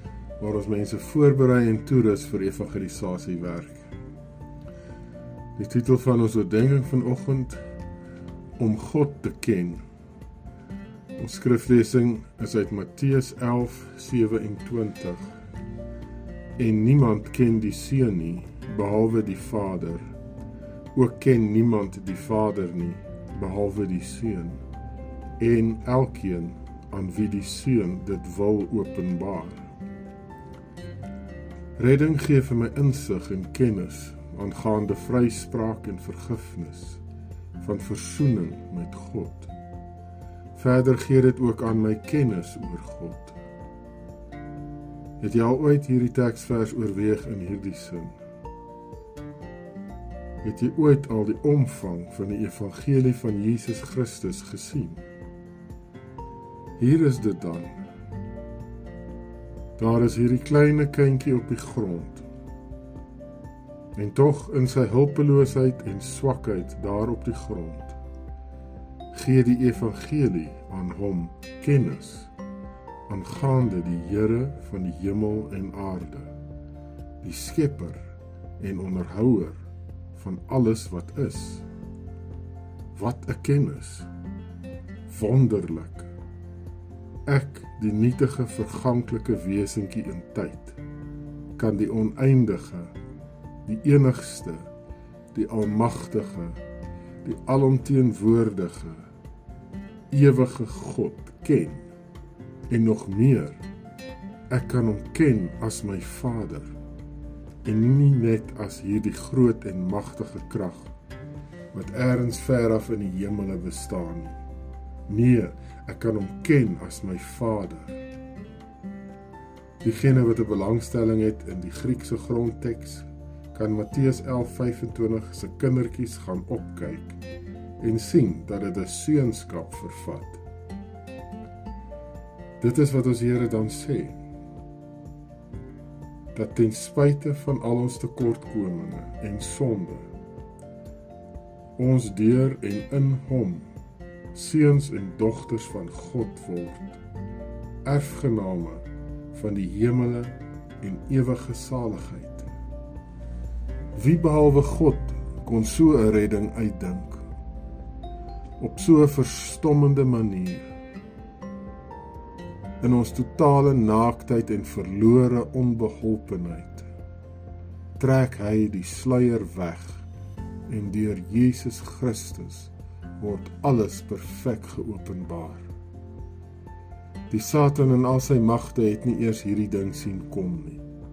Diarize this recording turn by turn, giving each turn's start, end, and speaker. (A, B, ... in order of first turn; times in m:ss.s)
0:00.4-0:03.8 A
0:05.6-0:07.6 A
0:08.6-0:09.8 A
0:11.2-0:15.3 A
0:16.6-0:20.1 A
0:20.9-0:24.6 A
0:25.4-0:29.7 A
0:31.8-0:37.0 A
0:37.6-0:39.5 A
0:40.5-0:43.4 A
0:45.2-0:48.2 A
0:50.4-0:55.0 A
0:56.8-0:57.8 A
0:59.8-1:02.2 A
1:04.0-1:08.0 A
1:09.1-1:12.3 A
1:13.1-1:16.3 A
1:17.2-1:18.0 A
1:18.6-1:19.6 A
1:20.1-1:21.6 A
1:22.9-1:24.1 A
1:25.1-1:26.1 A
1:27.2-1:30.8 A
1:31.6-1:32.9 A
1:33.6-1:34.7 A
1:35.3-1:36.5 A
1:37.2-1:39.1 A
1:40.1-1:41.8 A
1:42.7-1:43.6 A
1:44.5-1:46.7 A
1:47.6-1:50.9 A
1:51.7-1:54.4 A
1:55.1-1:58.0 A
1:59.8-2:07.2 A
2:07.8-2:10.4 A
2:12.6-2:14.2 A
2:16.3-2:20.1 A
2:21.8-2:23.7 A
2:24.3-2:27.0 A
2:27.8-2:32.5 A
2:33.9-2:37.2 A
2:38.6-2:40.6 A
2:42.8-2:46.9 A
2:48.0-2:50.0 A
2:50.7-2:55.7 A
2:57.3-3:00.8 A